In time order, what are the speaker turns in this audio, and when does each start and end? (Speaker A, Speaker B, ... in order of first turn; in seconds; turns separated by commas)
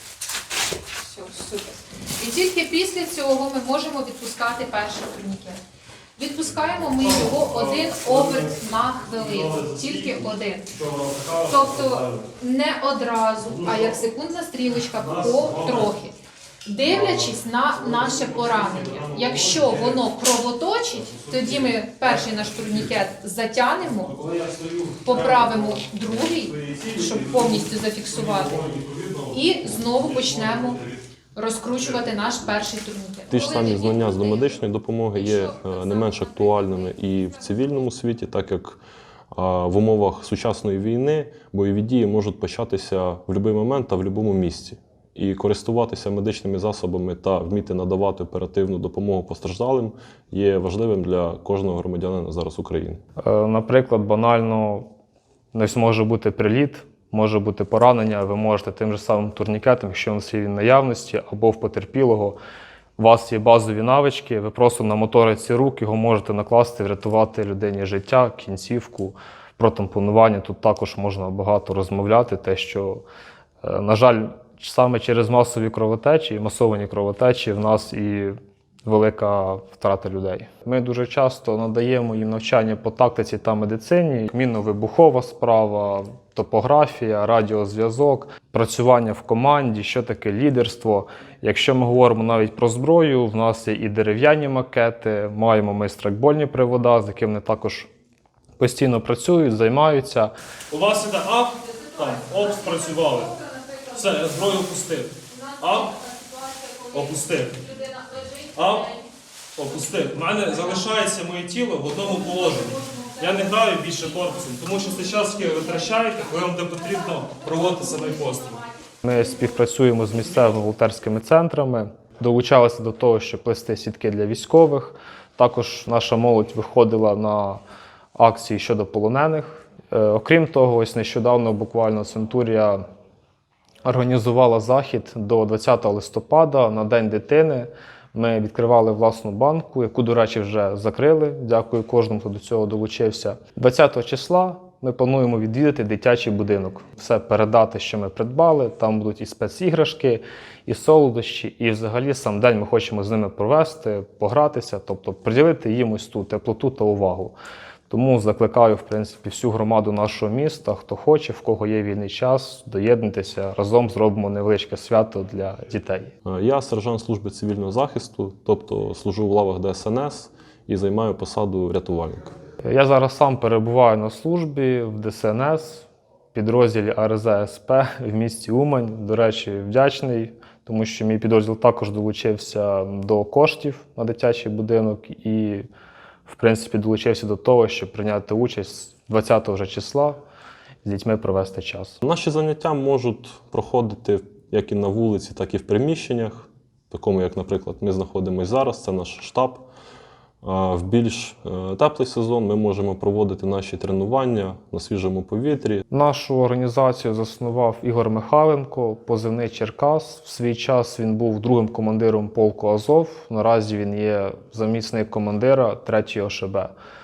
Speaker A: 1.0-5.6, Speaker A: 6.2-10.7, Speaker B: 6.9-12.3, Speaker A: 11.4-24.1, Speaker B: 13.4-14.0, Speaker B: 14.9-15.9, Speaker B: 16.9-20.0, Speaker B: 21.0-22.9, Speaker B: 23.8-31.0, Speaker A: 25.0-28.6, Speaker A: 29.3-30.8, Speaker A: 31.4-34.6, Speaker C: 33.3-38.8, Speaker A: 35.1-37.9, Speaker C: 39.3-53.0, Speaker D: 53.2-54.9, Speaker D: 55.5-62.4, Speaker D: 63.0-73.0, Speaker D: 73.6-97.9, Speaker D: 98.6-100.3, Speaker B: 100.7-103.3, Speaker A: 101.7-104.6, Speaker B: 103.9-105.9, Speaker A: 105.2-109.1, Speaker B: 106.9-107.6, Speaker B: 108.5-109.0, Speaker B: 109.6-118.6, Speaker A: 109.7-110.9, Speaker A: 111.9-119.6, Speaker D: 119.0-127.6, Speaker D: 128.2-132.8, Speaker D: 133.8-157.3, Speaker D: 157.9-166.1, Speaker C: 166.2-172.3, Speaker D: 172.6-185.7, Speaker D: 186.3-190.2, Speaker D: 190.8-192.0, Speaker C: 192.0-199.7, Speaker C: 200.4-205.8, Speaker D: 205.9-216.7